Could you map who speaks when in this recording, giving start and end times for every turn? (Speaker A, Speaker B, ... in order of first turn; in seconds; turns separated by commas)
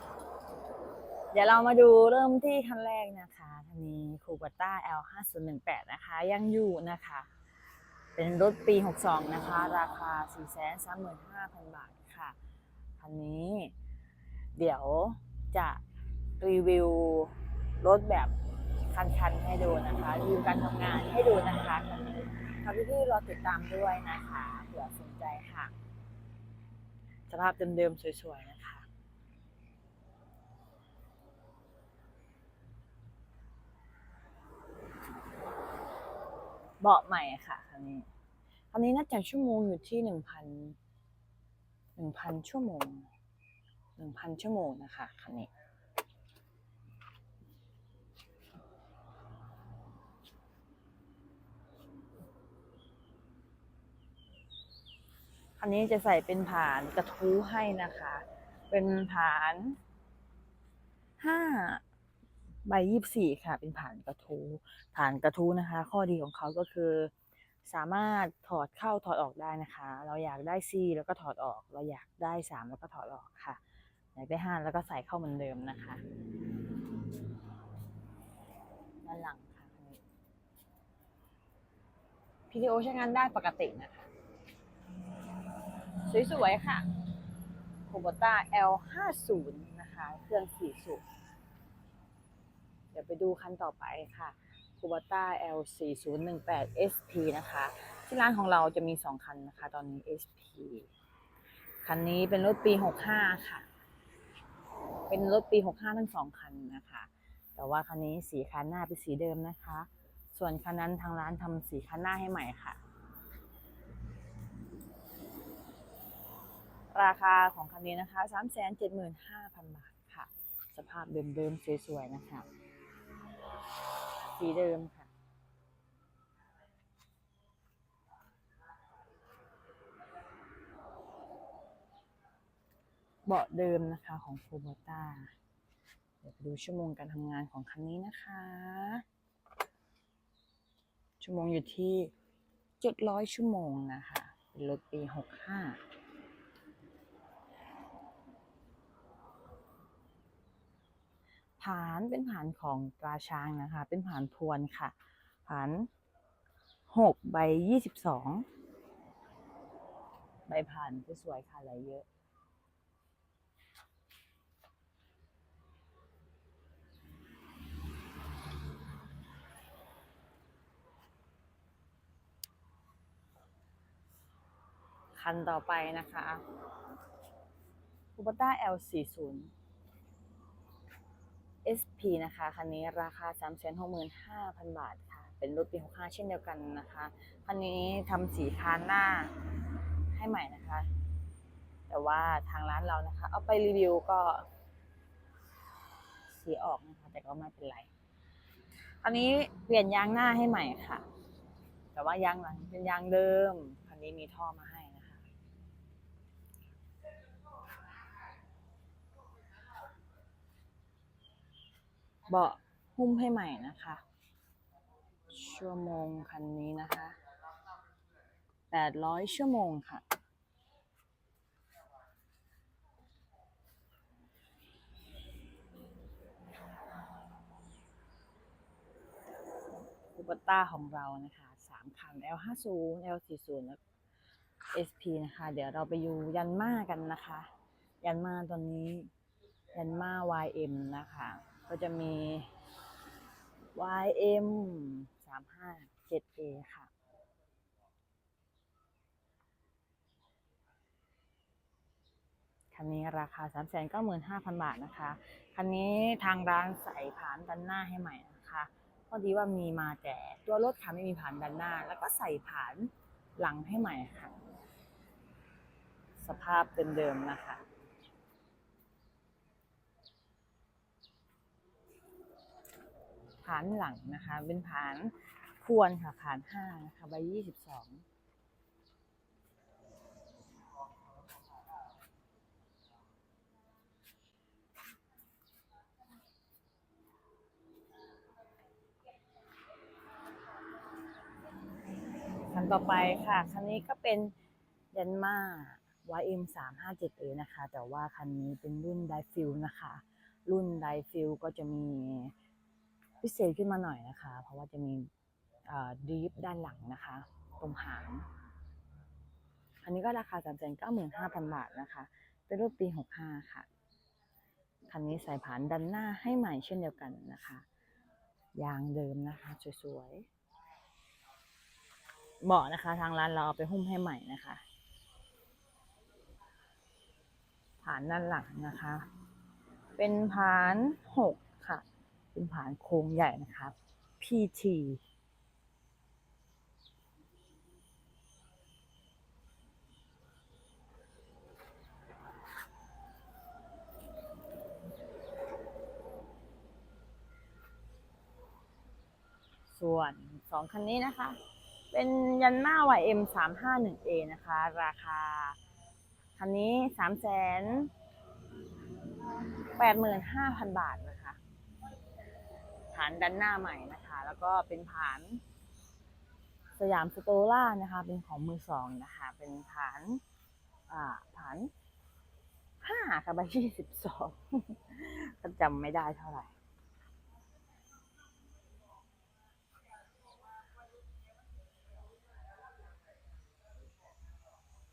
Speaker A: 1.3-7.3, Speaker A: 8.1-12.3, Speaker A: 13.0-13.7, Speaker A: 14.5-15.8, Speaker A: 16.4-25.7, Speaker A: 27.3-28.9, Speaker A: 36.8-38.1, Speaker A: 38.7-40.8, Speaker A: 42.0-43.1, Speaker A: 44.0-45.5, Speaker A: 55.6-59.8, Speaker A: 61.2-61.8, Speaker A: 62.6-67.1, Speaker A: 67.6-73.6, Speaker A: 74.1-76.0, Speaker A: 79.0-80.0, Speaker A: 82.5-84.1, Speaker A: 86.0-86.9, Speaker A: 87.9-91.0, Speaker A: 92.9-100.9, Speaker A: 101.8-103.7, Speaker A: 105.1-112.8, Speaker A: 116.9-122.5, Speaker A: 124.3-125.1, Speaker A: 133.2-135.3, Speaker A: 136.2-139.0, Speaker A: 141.2-142.1, Speaker A: 142.8-145.8, Speaker A: 151.6-154.9, Speaker A: 155.4-155.9, Speaker A: 156.9-158.4, Speaker A: 160.5-162.1, Speaker A: 175.1-176.4, Speaker A: 178.2-179.5, Speaker A: 181.6-189.4, Speaker A: 190.1-190.9, Speaker A: 191.9-194.5, Speaker A: 196.3-197.9, Speaker A: 199.0-201.1, Speaker A: 201.9-205.2, Speaker A: 212.3-214.0, Speaker A: 215.3-217.2, Speaker A: 218.7-220.0, Speaker A: 230.0-233.8, Speaker A: 234.7-237.5, Speaker A: 238.0-239.1, Speaker A: 239.7-242.5, Speaker A: 243.7-246.9, Speaker A: 252.7-264.4, Speaker A: 266.2-267.6, Speaker A: 273.4-278.0, Speaker A: 292.5-294.3, Speaker A: 294.9-302.3, Speaker A: 303.2-305.1, Speaker A: 305.7-308.3, Speaker A: 309.8-313.7, Speaker A: 314.9-317.6, Speaker A: 318.5-320.3, Speaker A: 322.4-324.6, Speaker A: 327.8-329.1, Speaker A: 329.9-335.0, Speaker A: 349.7-351.4, Speaker A: 351.9-355.6, Speaker A: 356.3-357.9, Speaker A: 359.7-361.4, Speaker A: 362.9-365.4, Speaker A: 366.8-370.2, Speaker A: 370.9-371.7, Speaker A: 372.8-376.5